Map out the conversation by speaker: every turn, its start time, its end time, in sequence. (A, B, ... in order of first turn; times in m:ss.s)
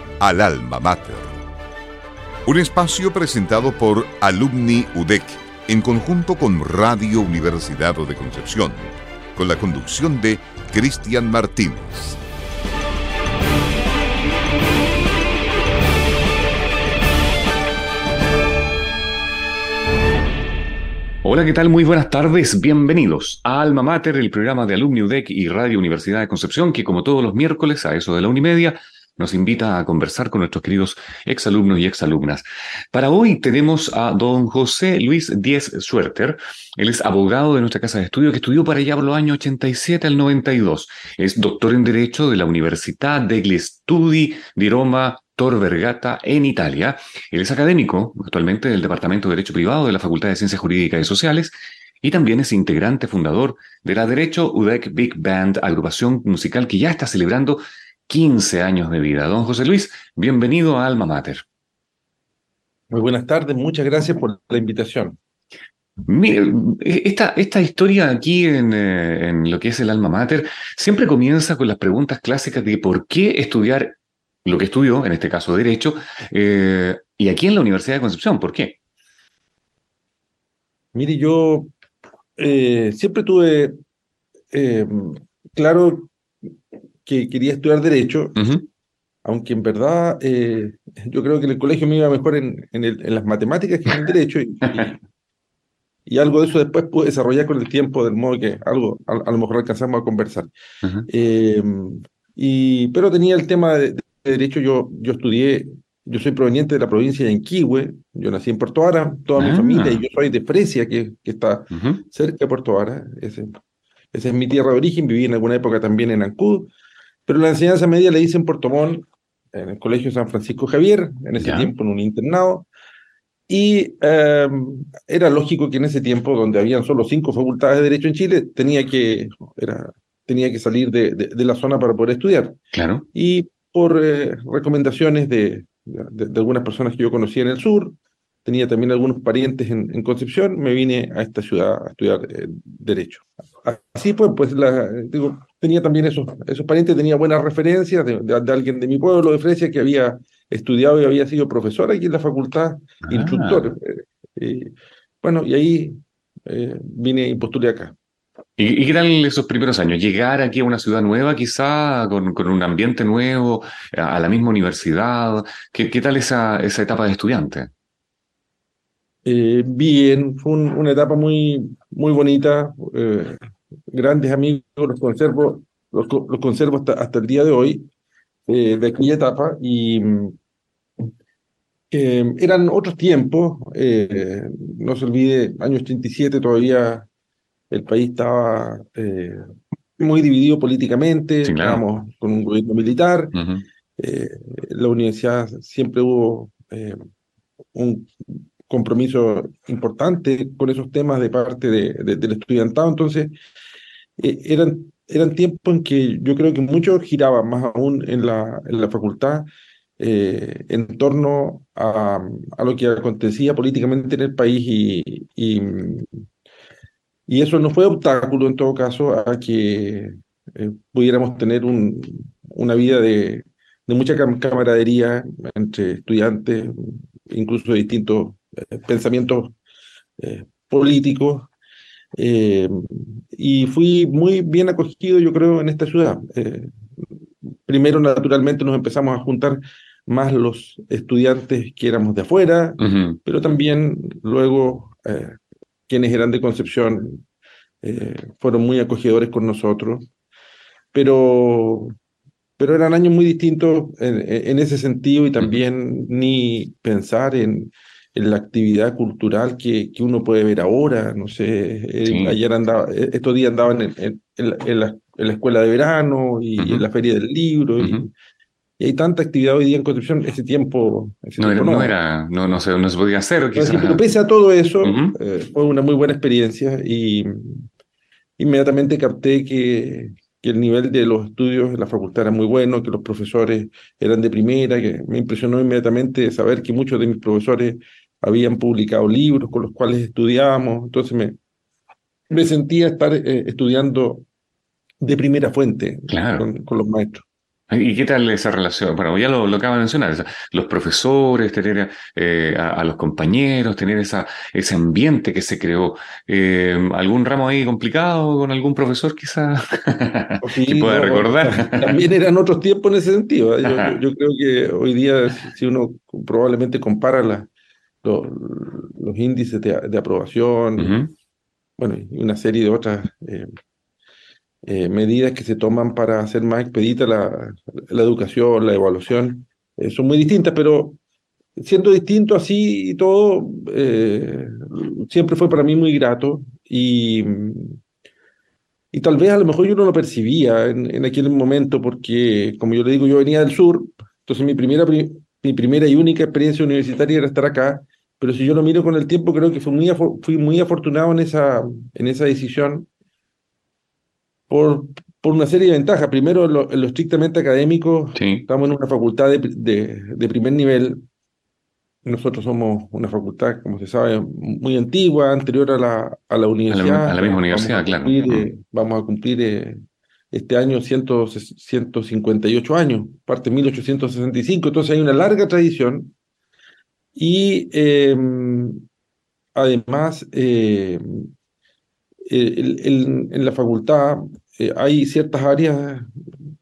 0:00.2-0:01.3 A
0:02.4-0:12.2 A
0:21.2-1:01.4 B
1:02.9-1:05.2 C
1:06.0-1:18.8 B
1:20.9-1:21.7 C
1:22.4-1:23.8 C
1:24.5-1:26.1 C
1:27.0-1:28.4 C
1:28.4-1:28.6 B
1:29.2-1:35.0 C
1:36.1-1:40.5 C
1:41.1-1:53.5 C
1:49.4-1:50.0 B
1:51.7-1:52.0 B
1:54.1-1:56.7 C
1:57.3-2:02.7 C
2:01.4-2:01.7 B
2:03.5-2:12.6 C
2:12.7-2:13.1 B
2:13.1-2:37.9 C
2:33.1-2:33.7 B
2:38.6-2:47.7 B
2:49.2-2:53.4 C
2:53.9-2:57.9 C
2:58.5-3:00.4 C
3:01.9-3:07.1 C
3:07.7-3:13.4 C
3:11.4-3:11.8 B
3:13.3-3:13.6 B
3:14.0-3:17.0 C
3:17.7-3:23.3 C
3:24.2-3:29.5 C
3:30.0-3:36.2 C
3:37.3-3:49.6 C
3:50.2-3:51.5 C
3:52.2-3:56.7 C
3:57.6-4:05.4 C
4:02.8-4:03.2 B
4:05.9-4:07.2 C
4:07.8-4:10.1 C
4:10.9-4:11.9 C
4:12.6-4:28.1 C
4:22.0-4:22.4 B
4:26.6-4:26.8 B
4:27.8-4:28.1 B
4:28.8-4:31.9 C
4:31.4-4:34.0 B
4:33.6-4:37.7 C
4:34.8-4:35.2 B
4:38.4-4:51.4 C
4:52.3-4:54.2 C
4:55.0-4:57.2 C
4:56.1-4:56.5 B
4:57.7-5:12.0 B
5:10.4-5:17.5 C
5:13.6-5:13.9 B
5:18.0-5:21.0 C
5:20.8-5:21.1 B
5:21.8-5:23.5 C
5:24.7-5:31.0 C
5:31.6-5:37.8 C
5:38.9-5:52.9 C
5:54.5-6:01.0 C
5:58.2-5:58.5 B
6:02.0-6:09.8 C
6:06.7-6:08.5 B
6:10.3-6:16.1 C
6:17.2-6:18.8 C
6:19.6-6:21.3 C
6:22.3-6:26.1 C